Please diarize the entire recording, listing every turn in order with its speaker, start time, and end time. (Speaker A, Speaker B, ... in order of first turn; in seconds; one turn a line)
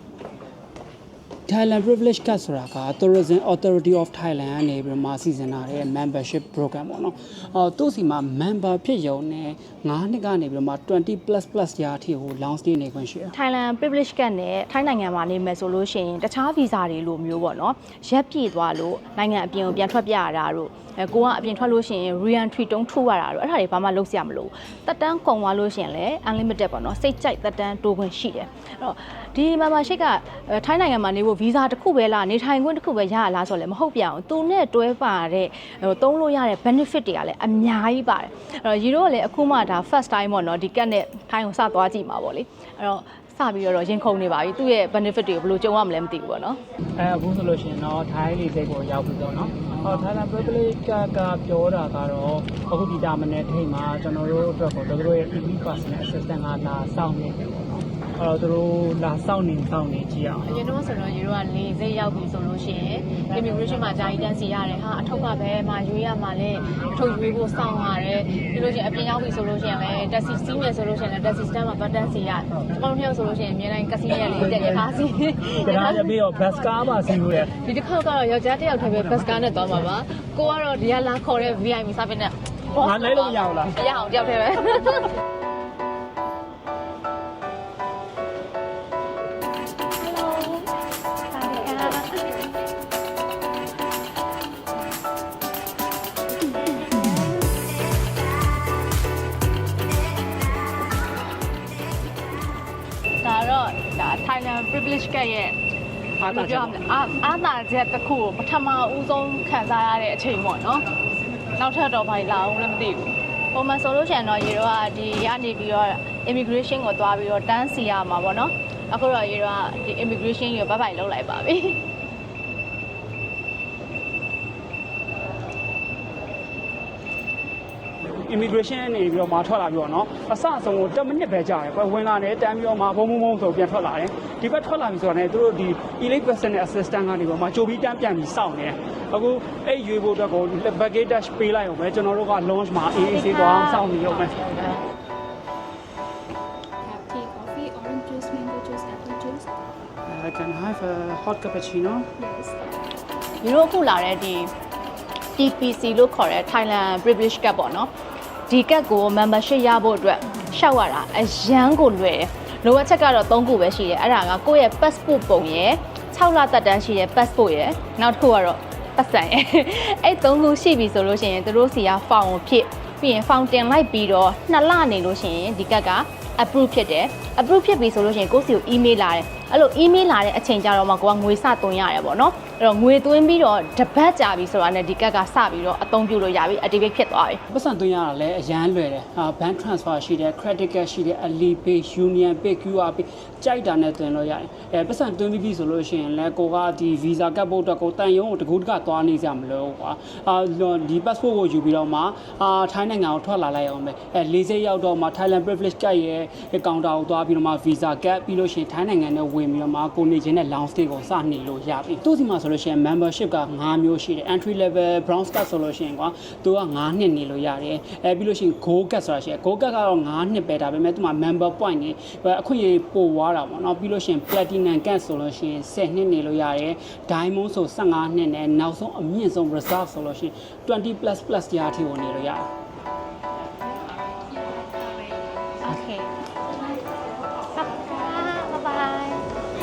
Speaker A: 1.5-13.3
Speaker B: 13.3-46.6
Speaker A: 47.0-60.5
Speaker B: 60.4-76.2
Speaker A: 74.2-77.6
Speaker B: 77.5-85.1
Speaker A: 82.7-83.8
Speaker B: 90.0-90.7
Speaker B: 91.3-92.3
Speaker B: 96.9-97.5
Speaker B: 103.2-105.6
Speaker A: 106.2-107.0
Speaker B: 106.2-110.8
Speaker B: 111.5-121.8
Speaker A: 128.2-144.5
Speaker B: 142.9-144.8
Speaker C: 146.8-149.5
Speaker A: 150.1-152.1
Speaker C: 152.2-152.6
Speaker B: 153.4-154.5
Speaker B: 155.3-157.9
Speaker B: 158.5-187.4
Speaker A: 187.5-232.5
Speaker B: 235.6-236.1
Speaker B: 237.5-239.2